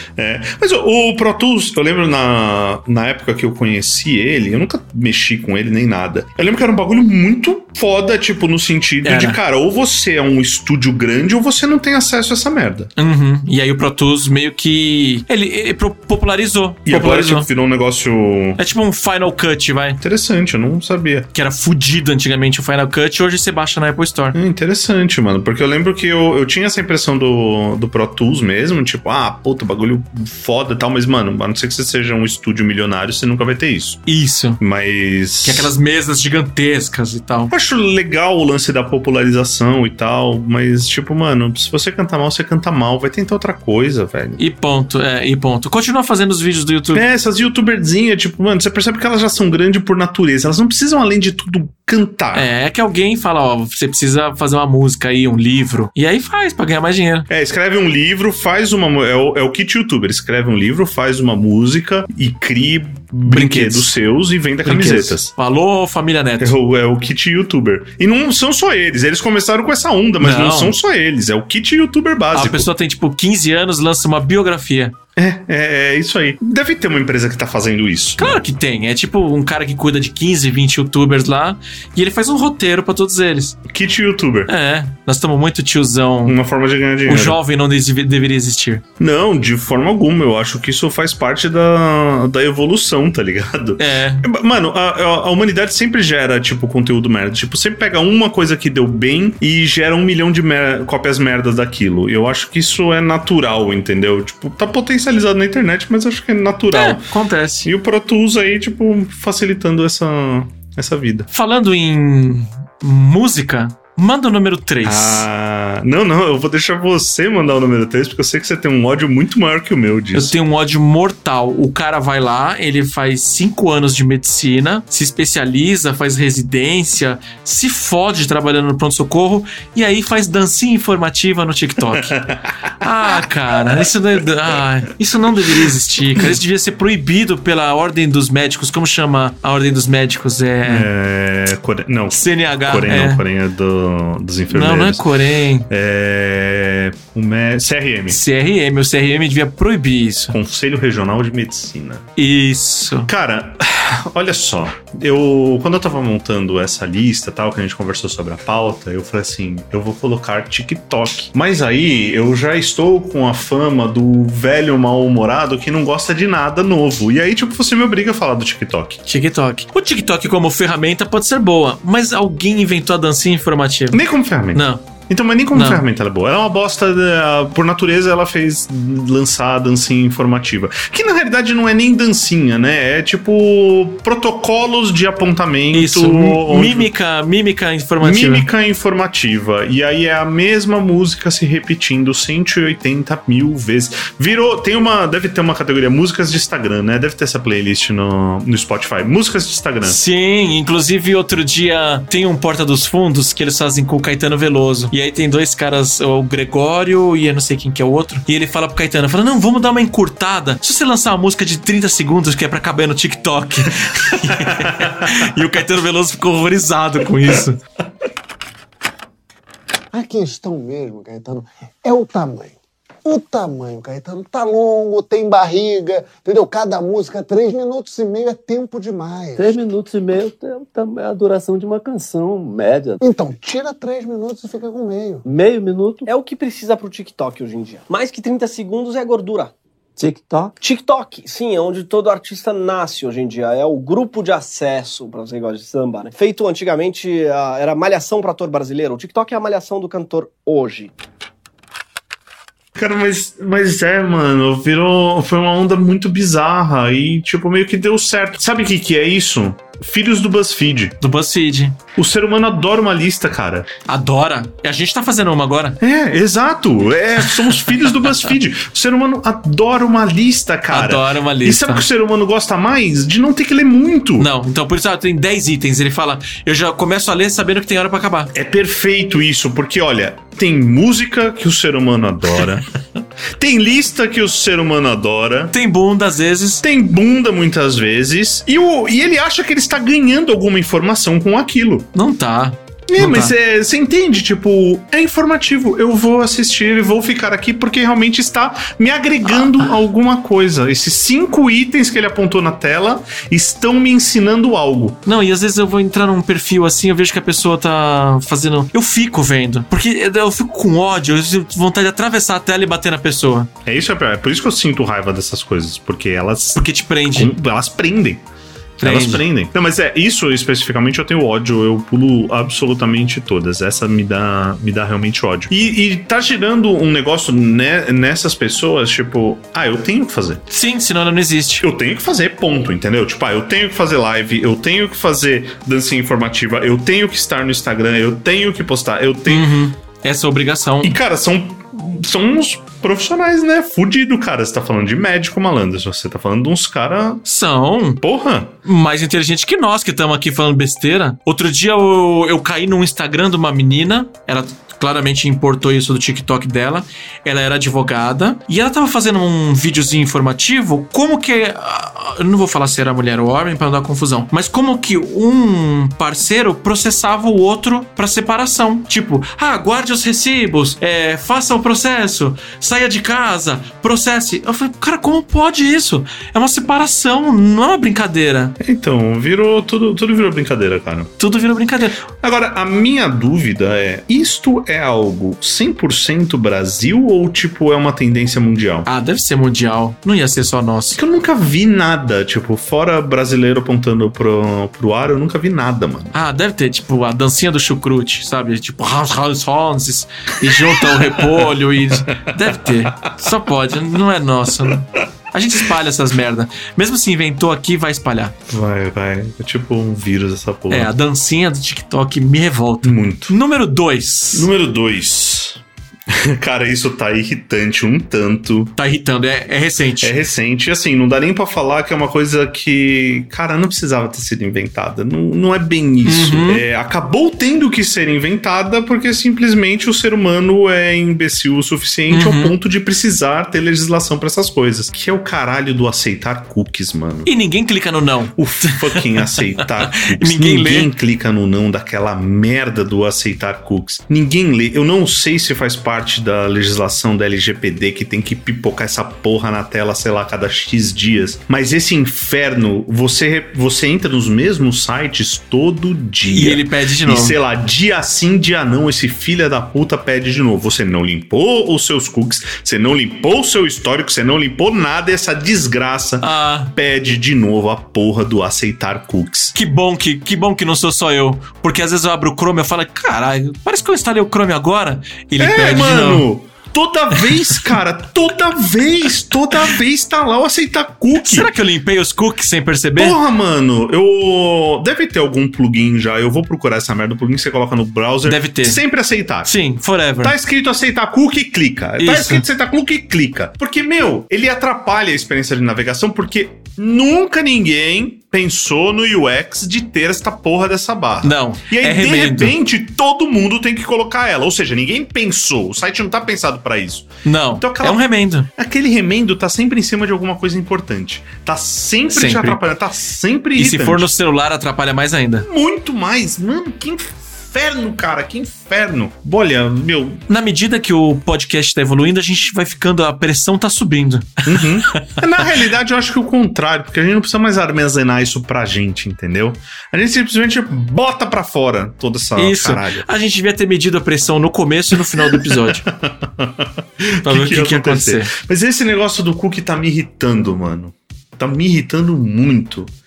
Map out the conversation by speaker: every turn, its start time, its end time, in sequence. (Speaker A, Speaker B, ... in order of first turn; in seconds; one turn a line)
Speaker A: 0.2-12.9
Speaker B: 9.0-9.4
Speaker B: 13.0-17.5
Speaker A: 16.9-18.6
Speaker B: 18.6-20.0
Speaker A: 20.0-21.3
Speaker B: 21.3-24.4
Speaker A: 24.3-34.0
Speaker B: 34.0-34.6
Speaker A: 34.6-35.7
Speaker B: 35.4-37.5
Speaker A: 37.5-44.4
Speaker B: 44.4-47.0
Speaker A: 46.9-52.5
Speaker B: 52.3-57.3
Speaker A: 57.3-65.3
Speaker B: 63.2-63.9
Speaker B: 64.6-66.5
Speaker A: 66.4-72.7
Speaker B: 70.2-70.7
Speaker B: 72.3-74.9
Speaker A: 75.2-78.4
Speaker B: 78.2-83.6
Speaker A: 83.7-84.5
Speaker B: 84.5-86.4
Speaker A: 86.2-87.4
Speaker B: 87.0-88.8
Speaker A: 89.0-107.1
Speaker B: 93.8-94.2
Speaker B: 106.7-107.7
Speaker A: 107.6-111.3
Speaker B: 111.3-115.2
Speaker A: 114.8-120.3
Speaker B: 120.1-132.2
Speaker A: 131.9-133.8
Speaker B: 132.8-140.9
Speaker A: 135.4-135.6
Speaker A: 140.6-145.1
Speaker B: 142.1-143.2
Speaker B: 144.5-145.7
Speaker A: 145.7-148.2
Speaker B: 148.1-150.3
Speaker A: 150.3-152.1
Speaker B: 152.2-153.1
Speaker A: 153.1-169.0
Speaker B: 169.1-174.9
Speaker A: 173.9-186.9
Speaker B: 175.5-175.8
Speaker B: 185.7-188.5
Speaker A: 188.0-200.0
Speaker B: 199.8-217.6
Speaker A: 213.9-215.3
Speaker C: 219.9-229.5
Speaker D: 229.4-233.0
Speaker C: 233.0-235.2
Speaker D: 235.2-236.1
Speaker E: 236.1-239.5
Speaker D: 240.0-240.6
Speaker E: 240.6-250.9
Speaker A: 252.8-261.0
Speaker B: 261.0-261.8
Speaker A: 261.9-263.7
Speaker B: 263.9-265.8
Speaker A: 265.8-274.3
Speaker B: 267.4-268.2
Speaker B: 270.7-271.9
Speaker B: 274.2-278.3
Speaker A: 278.3-282.6
Speaker A: 283.3-285.5
Speaker B: 285.5-286.6
Speaker A: 286.6-291.9
Speaker B: 291.9-293.3
Speaker A: 292.9-305.0
Speaker B: 305.1-313.5
Speaker A: 313.6-318.2
Speaker B: 316.5-317.3
Speaker B: 318.8-319.2
Speaker A: 318.8-330.4
Speaker B: 330.5-331.6
Speaker A: 331.6-339.5
Speaker B: 339.3-341.0
Speaker A: 340.8-347.2
Speaker B: 347.2-348.0
Speaker A: 348.0-348.5
Speaker B: 348.6-378.6
Speaker A: 378.6-381.1
Speaker B: 381.2-382.0
Speaker A: 382.2-388.9
Speaker B: 388.9-391.0
Speaker A: 390.9-396.1
Speaker B: 396.1-408.4
Speaker A: 400.4-403.1
Speaker A: 408.5-410.9
Speaker B: 410.7-414.5
Speaker A: 412.8-413.4
Speaker A: 414.3-418.7
Speaker B: 418.8-420.2
Speaker A: 420.0-437.3
Speaker B: 426.0-426.6
Speaker B: 432.1-432.6
Speaker B: 437.2-440.9
Speaker A: 438.4-469.5
Speaker B: 456.2-457.4
Speaker B: 466.2-466.7
Speaker B: 469.5-476.3
Speaker A: 475.4-481.5
Speaker B: 477.1-477.8
Speaker B: 481.2-483.2
Speaker A: 482.9-489.5
Speaker B: 488.2-488.8
Speaker B: 489.4-490.3
Speaker A: 490.2-514.1
Speaker B: 492.0-492.4
Speaker B: 501.2-502.5
Speaker B: 507.2-508.5
Speaker B: 512.1-512.6
Speaker B: 513.6-515.5
Speaker A: 515.4-520.2
Speaker B: 520.3-525.5
Speaker A: 524.5-533.1
Speaker B: 532.4-535.8
Speaker A: 534.9-542.9
Speaker B: 537.2-538.3